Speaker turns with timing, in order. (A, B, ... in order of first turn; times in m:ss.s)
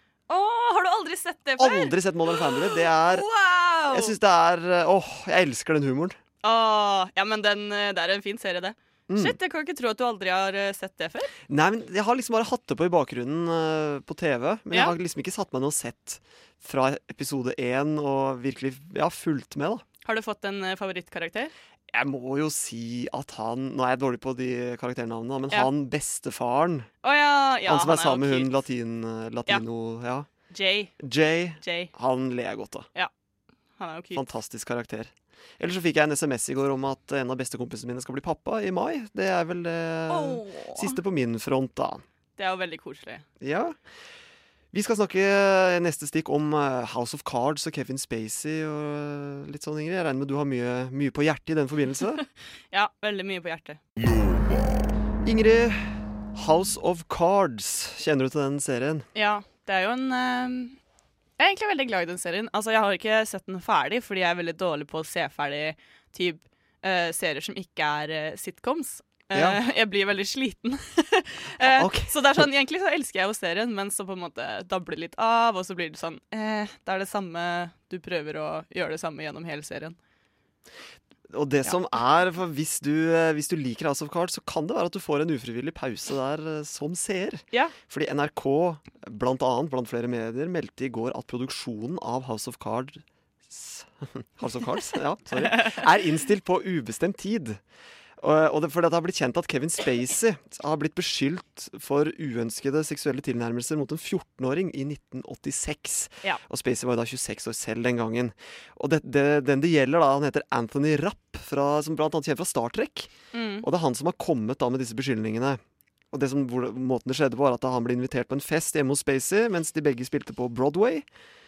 0:00.3-0:04.1 A
0:01.6-0:03.2 B
0:03.9-0:06.2 B
0:06.4-0:11.3 A
0:09.1-0:09.4 B
0:11.5-0:19.8 B
0:20.0-0:21.5 A
0:21.9-0:26.9 B
0:27.0-0:28.5 A
0:27.6-0:30.3 B
0:30.5-0:30.9 A
0:31.0-0:32.9 B
0:31.6-0:31.9 A
0:33.8-0:34.2 A
0:34.1-0:42.0 B
0:40.1-0:41.0 A
0:42.4-0:43.2 A
0:43.4-0:43.8 B
0:44.7-0:52.2 B
0:52.7-0:53.8 A
0:55.2-0:59.0 B
0:59.1-1:00.8 A
1:01.4-1:20.0 A
1:09.3-1:09.6 B
1:11.6-1:12.4 B
1:21.3-1:37.6 B
1:35.3-1:35.9 A
1:38.2-1:55.6 B
1:53.3-1:53.7 A
1:56.1-2:01.0 B